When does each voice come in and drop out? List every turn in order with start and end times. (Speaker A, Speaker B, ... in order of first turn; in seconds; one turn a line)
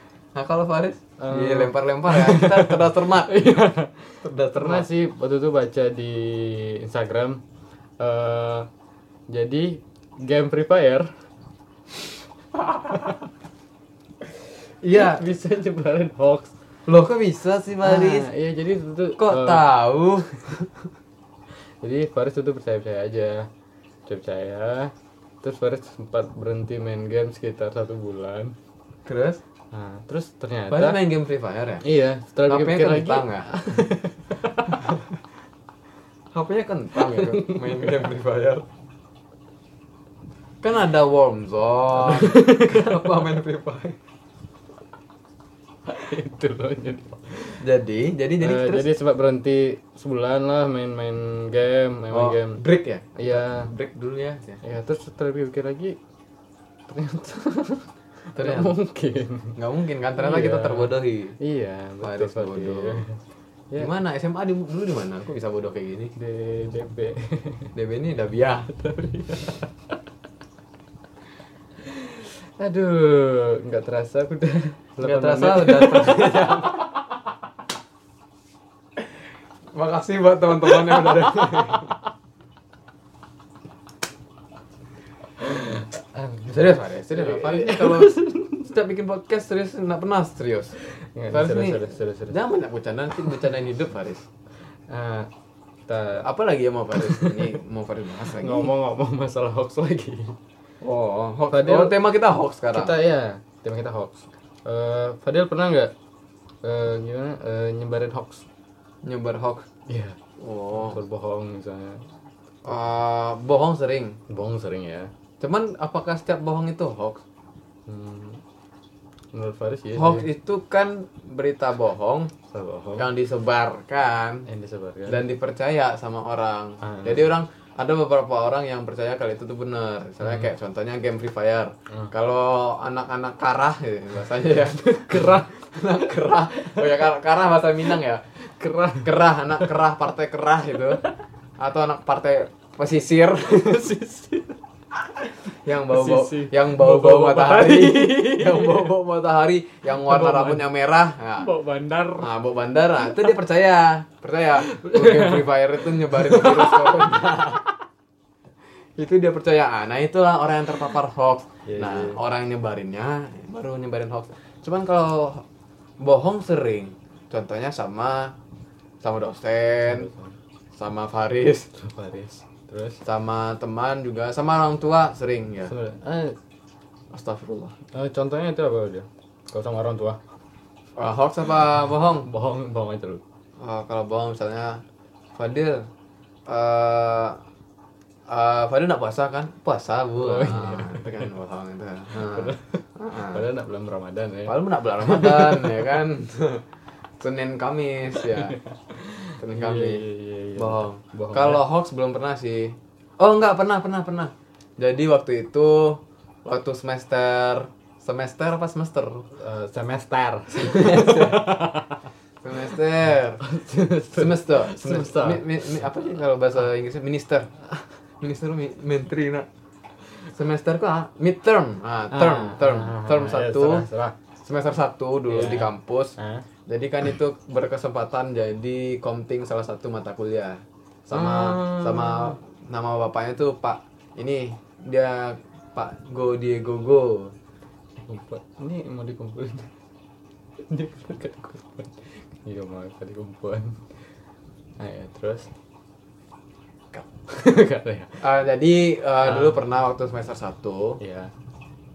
Speaker A: 0.3-3.6
Speaker B: 1.2-7.4
Speaker A: 4.2-4.9
Speaker B: 8.0-8.7
Speaker B: 9.3-11.1
Speaker A: 14.8-15.2
Speaker B: 14.9-16.5
Speaker A: 16.9-18.3
Speaker B: 17.8-19.7
Speaker A: 19.2-20.7
Speaker B: 21.8-23.5
Speaker B: 24.1-28.6
Speaker A: 29.1-29.4
Speaker B: 29.7-31.0
Speaker A: 30.7-31.8
Speaker B: 31.8-34.9
Speaker A: 32.5-33.5
Speaker A: 36.3-38.6
Speaker B: 37.0-38.1
Speaker A: 40.6-44.0
Speaker B: 42.0-43.0
Speaker B: 45.9-47.6
Speaker A: 47.6-48.9
Speaker B: 48.4-52.6
Speaker A: 52.1-54.6
Speaker B: 53.2-53.7
Speaker B: 54.6-56.0
Speaker B: 56.9-59.6
Speaker A: 58.4-58.8
Speaker A: 59.6-61.4
Speaker B: 60.2-63.2
Speaker A: 62.0-63.0
Speaker A: 63.8-66.1
Speaker B: 66.2-67.7
Speaker A: 67.7-68.7
Speaker B: 68.7-69.7
Speaker B: 71.8-76.9
Speaker A: 75.0-76.9
Speaker A: 79.7-82.0
Speaker B: 81.0-81.8
Speaker B: 85.4-86.6
Speaker A: 86.5-90.8
Speaker B: 87.1-88.7
Speaker B: 91.1-92.4
Speaker A: 91.3-94.2
Speaker B: 94.9-95.3
Speaker B: 95.9-96.3
Speaker A: 96.2-98.7
Speaker B: 97.0-97.5
Speaker B: 98.3-100.4
Speaker A: 100.8-103.0
Speaker B: 101.5-102.0
Speaker B: 102.7-105.9
Speaker B: 106.6-108.5
Speaker A: 109.0-109.7
Speaker B: 109.9-110.2
Speaker A: 110.4-111.0
Speaker B: 110.7-112.1
Speaker A: 112.7-114.2
Speaker B: 114.3-115.1
Speaker A: 115.4-117.2
Speaker B: 117.9-118.4
Speaker B: 119.3-120.3
Speaker A: 119.9-122.3
Speaker B: 122.5-123.1
Speaker A: 123.0-124.5
Speaker B: 124.5-125.2
Speaker A: 125.1-138.2
Speaker B: 126.8-127.3
Speaker B: 130.2-130.5
Speaker B: 134.7-135.5
Speaker B: 136.3-137.0
Speaker B: 138.4-139.7
Speaker A: 139.0-141.0
Speaker A: 141.6-143.8
Speaker B: 143.4-144.6
Speaker B: 145.5-148.9
Speaker A: 145.6-151.5
Speaker B: 149.9-150.7
Speaker B: 151.4-152.3
Speaker A: 152.2-157.7
Speaker B: 153.0-153.3
Speaker B: 154.6-157.6
Speaker A: 159.0-165.4
Speaker B: 161.7-162.2
Speaker A: 166.0-168.3
Speaker A: 169.0-170.1
Speaker B: 169.9-170.3
Speaker A: 170.8-171.7
Speaker B: 171.7-173.0
Speaker A: 173.0-175.7
Speaker B: 175.7-176.4
Speaker A: 177.1-177.8
Speaker B: 177.9-180.2
Speaker A: 181.0-182.3
Speaker B: 182.2-183.2
Speaker A: 183.6-184.8
Speaker A: 185.4-185.9
Speaker A: 186.5-187.4
Speaker A: 188.3-193.4
Speaker B: 190.2-191.3
Speaker B: 192.1-195.8
Speaker A: 194.5-196.6
Speaker A: 197.2-198.6
Speaker B: 198.3-201.6
Speaker A: 199.4-200.1
Speaker A: 200.6-209.3
Speaker B: 209.3-212.0
Speaker A: 210.6-211.5
Speaker A: 212.4-213.4
Speaker B: 213.4-215.8
Speaker A: 214.1-217.5
Speaker A: 218.2-219.5
Speaker A: 220.3-223.9
Speaker B: 222.1-224.2
Speaker A: 224.4-226.2
Speaker B: 225.3-226.5
Speaker A: 226.7-237.3
Speaker B: 231.1-232.4
Speaker B: 238.0-239.7
Speaker B: 240.7-243.9
Speaker B: 244.8-245.5
Speaker B: 247.3-248.2
Speaker A: 248.2-251.0
Speaker B: 249.2-249.6
Speaker B: 251.0-251.3